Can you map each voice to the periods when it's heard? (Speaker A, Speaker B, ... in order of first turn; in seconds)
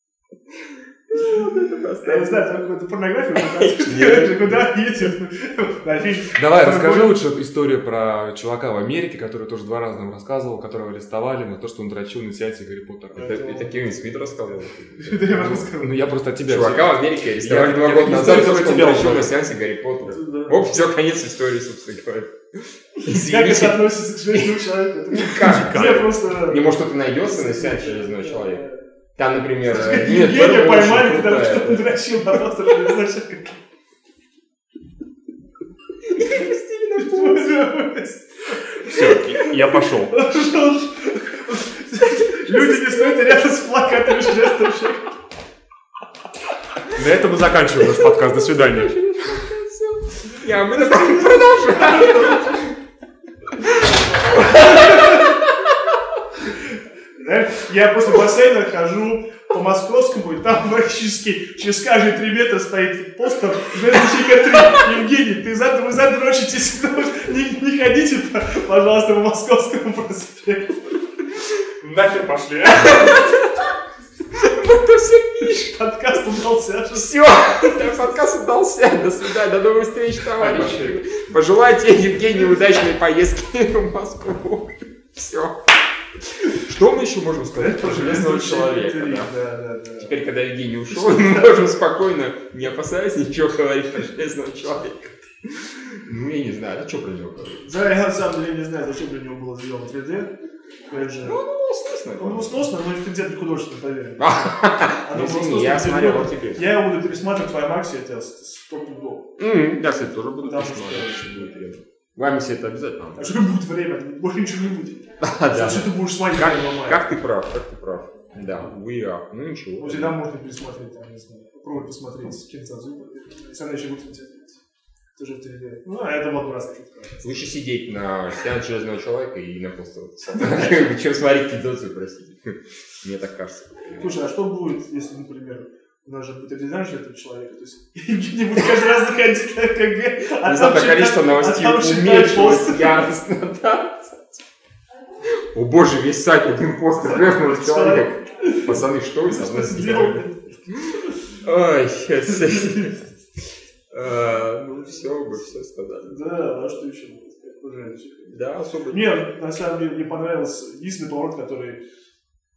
Speaker A: 1.1-2.5, 3.4-4.7, 13.2-15.7, 16.4-24.6, 25.1-28.6, 29.1-32.0, 36.1-37.7, 42.4-43.2, 47.9-52.6, 53.6-55.3, 72.8-73.7, 74.3-75.8, 76.9-85.5, 86.4-89.3, 90.0-97.7, 101.2-102.7, 104.2-106.6, 109.4-113.5, 115.2-120.2, 127.2-134.2, 140.4-144.4, 145.5-150.3, 151.4-153.0, 153.9-156.2, 158.3-159.2
Speaker B: 2.0-7.2, 13.1-13.9, 15.0-15.9, 20.0-20.7, 23.0-28.8, 29.6-33.6, 37.0-45.1, 50.7-52.6, 54.3-55.3, 57.2-70.9, 75.4-77.8, 87.5-90.2, 90.9-91.6, 97.6-100.3, 100.8-101.4, 102.2-109.3, 110.4-111.6, 113.1-117.1, 119.8-124.6, 125.2-127.2, 130.3-130.8, 134.0-143.1, 147.0-151.1, 156.1-158.4, 158.9-161.8
Speaker C: 6.3-13.2, 15.3-19.3, 25.4-25.8, 38.8-40.2, 46.9-48.9, 71.8-73.2, 80.3-81.0